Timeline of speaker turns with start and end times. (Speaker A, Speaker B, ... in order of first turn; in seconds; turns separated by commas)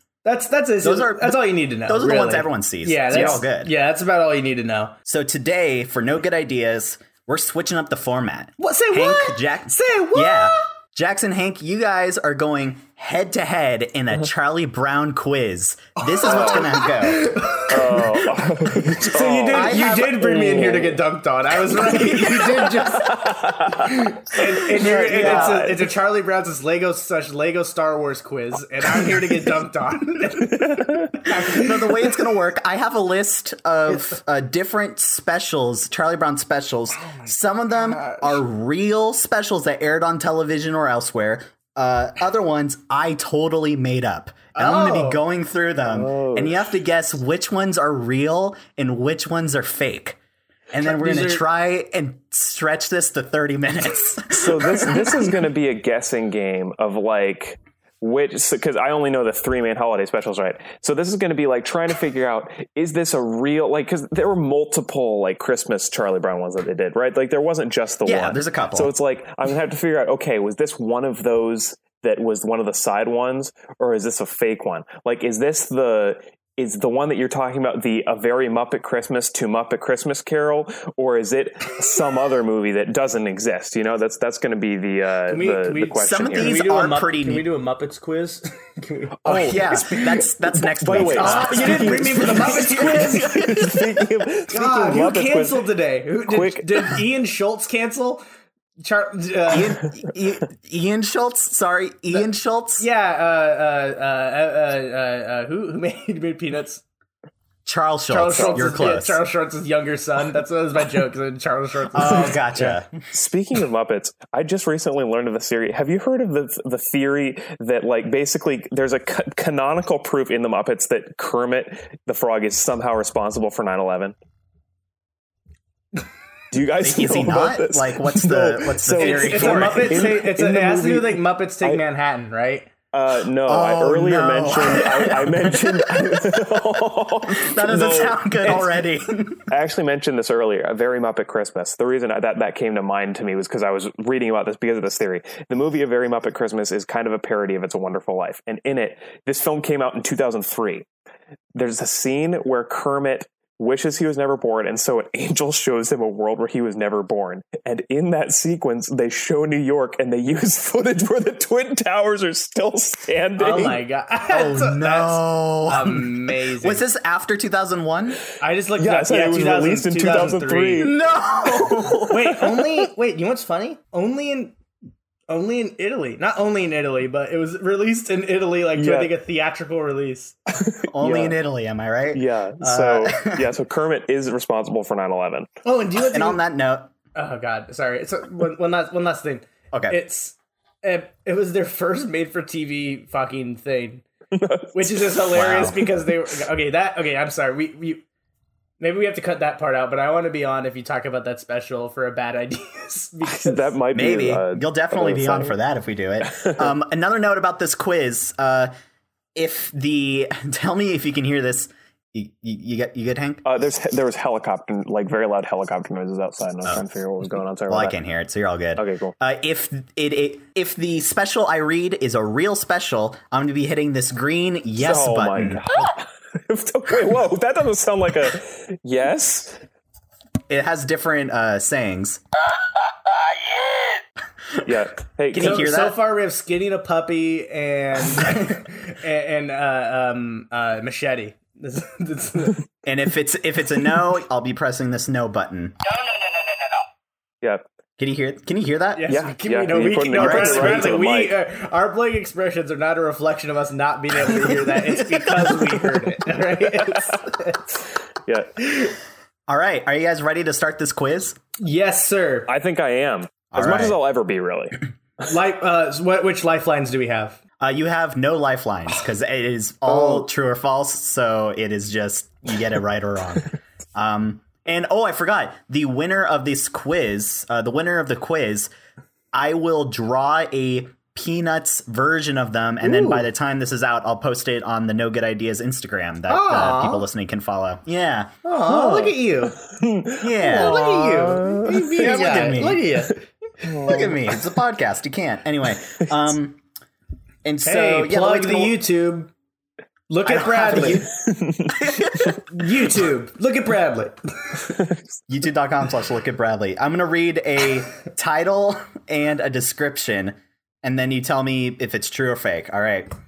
Speaker A: 0.2-5.0, Speaker B: 0.8-3.7, Speaker C: 3.1-3.4, Speaker B: 5.1-17.3, Speaker A: 8.6-10.6, Speaker A: 16.1-32.2, Speaker C: 16.2-16.8, Speaker C: 17.7-21.0, Speaker B: 19.5-20.3, Speaker C: 22.7-25.9, Speaker B: 24.8-25.6, Speaker C: 30.5-31.1, Speaker B: 31.2-50.2, Speaker A: 37.0-38.4, Speaker A: 44.5-45.2, Speaker C: 45.8-46.7, Speaker B: 50.7-55.2, Speaker A: 50.8-51.4, Speaker C: 54.3-86.6, Speaker B: 68.0-68.9, Speaker A: 85.3-89.8, Speaker B: 86.0-87.5, Speaker C: 89.2-95.7, Speaker B: 89.2-93.5, Speaker A: 90.9-93.8, Speaker A: 94.5-98.2, Speaker C: 96.3-96.9, Speaker A: 98.8-99.8, Speaker B: 99.5-102.8, Speaker A: 102.8-106.8, Speaker B: 107.7-109.2, Speaker A: 108.1-112.8, Speaker C: 108.3-108.9, Speaker B: 111.9-112.9, Speaker C: 113.1-124.2, Speaker C: 126.5-131.8, Speaker B: 126.8-130.0, Speaker A: 129.0-132.7, Speaker C: 132.9-138.7, Speaker B: 133.5-136.3, Speaker B: 137.3-139.5, Speaker C: 139.5-150.9, Speaker C: 151.5-163.8, Speaker A: 163.4-166.8, Speaker B: 164.3-168.2, Speaker A: 168.4-171.0, Speaker C: 168.8-171.0, Speaker B: 170.8-172.2, Speaker A: 172.1-174.6, Speaker A: 175.3-180.4, Speaker C: 178.8-179.1, Speaker C: 180.6-181.4, Speaker B: 180.9-183.5, Speaker C: 182.1-185.5, Speaker A: 185.7-186.4, Speaker B: 186.1-186.9, Speaker A: 187.2-194.1, Speaker B: 189.7-190.0, Speaker C: 194.3-195.8, Speaker A: 194.7-198.0, Speaker B: 195.3-195.8, Speaker A: 198.8-203.8, Speaker C: 203.2-205.6, Speaker B: 203.9-208.7, Speaker C: 206.2-206.7, Speaker B: 209.3-213.4, Speaker C: 213.4-217.9, Speaker B: 217.7-225.6, Speaker C: 218.8-219.2, Speaker C: 224.8-229.6, Speaker B: 230.5-232.2, Speaker C: 234.7-235.7, Speaker B: 235.3-236.0, Speaker A: 235.4-242.6, Speaker B: 242.8-245.7, Speaker B: 248.0-249.1, Speaker A: 248.9-257.6, Speaker C: 249.1-251.4, Speaker B: 250.1-251.0, Speaker C: 256.9-257.2, Speaker C: 258.3-258.5, Speaker B: 259.5-261.4, Speaker A: 261.6-262.5, Speaker C: 262.5-264.8, Speaker B: 263.5-264.0, Speaker A: 265.2-267.4, Speaker B: 267.6-278.7, Speaker B: 279.3-288.3, Speaker A: 282.8-283.2, Speaker A: 286.3-287.1, Speaker A: 288.4-289.6, Speaker C: 288.7-292.5, Speaker B: 290.2-290.8, Speaker A: 290.4-293.2, Speaker B: 291.9-292.9, Speaker C: 293.6-294.4, Speaker B: 293.8-296.6, Speaker B: 297.4-298.8, Speaker A: 297.6-299.3, Speaker A: 300.1-301.1, Speaker B: 300.3-301.1, Speaker C: 301.2-301.8, Speaker B: 301.7-302.4, Speaker A: 302.1-304.6, Speaker B: 305.3-313.1